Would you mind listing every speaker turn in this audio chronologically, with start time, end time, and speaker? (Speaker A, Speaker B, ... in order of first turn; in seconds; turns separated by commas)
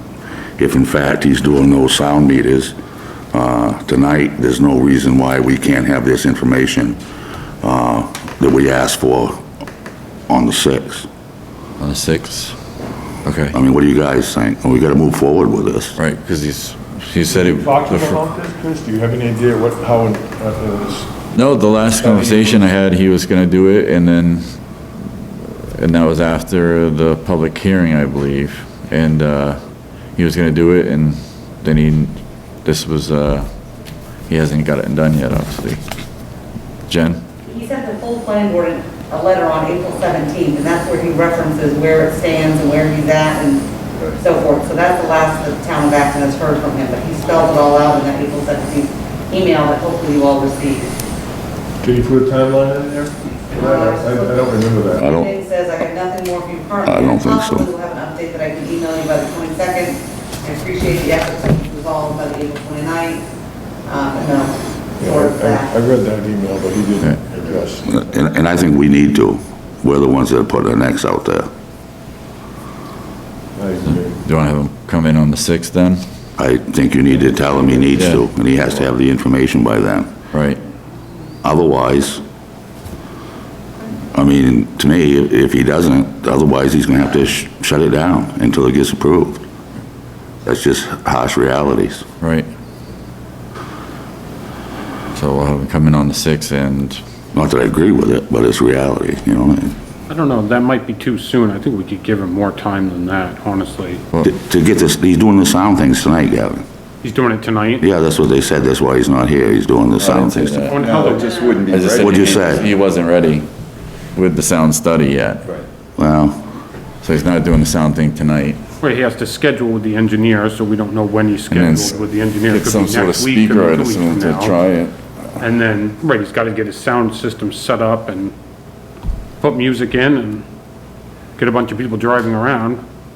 Speaker A: 0.6-2.8, Speaker A: 3.3-7.0, Speaker A: 7.6-9.4, Speaker A: 10.3-11.1, Speaker B: 11.8-12.6, Speaker B: 13.2-13.6, Speaker A: 13.5-16.0, Speaker B: 16.0-18.2, Speaker C: 17.3-21.1, Speaker B: 21.3-24.5, Speaker C: 21.9-22.6, Speaker B: 25.8-29.6, Speaker B: 30.2-33.5, Speaker B: 34.3-35.8, Speaker B: 36.9-37.2, Speaker D: 37.5-51.0, Speaker C: 51.8-55.1, Speaker D: 53.5-63.2, Speaker A: 55.0-55.3, Speaker A: 56.9-57.7, Speaker D: 63.9-65.7, Speaker C: 65.0-67.9, Speaker A: 67.8-71.5, Speaker C: 73.6-74.2, Speaker B: 73.9-76.0, Speaker A: 76.4-80.1, Speaker B: 77.9-78.2, Speaker B: 80.3-80.6, Speaker A: 81.4-82.2, Speaker A: 84.1-89.5, Speaker A: 90.5-92.0, Speaker B: 92.2-92.5, Speaker B: 95.1-97.0, Speaker A: 97.3-99.8, Speaker E: 100.1-104.0, Speaker A: 104.2-106.7, Speaker E: 107.0-107.8, Speaker A: 107.8-110.7, Speaker F: 110.0-112.7, Speaker B: 110.1-110.8, Speaker E: 110.6-111.5, Speaker B: 111.7-113.5, Speaker A: 112.0-112.7, Speaker B: 114.2-115.4, Speaker A: 116.0-116.4, Speaker B: 117.0-118.6, Speaker E: 118.8-124.6, Speaker B: 121.5-122.0, Speaker B: 122.5-125.0, Speaker E: 125.4-128.3, Speaker E: 129.4-130.5, Speaker E: 131.4-132.8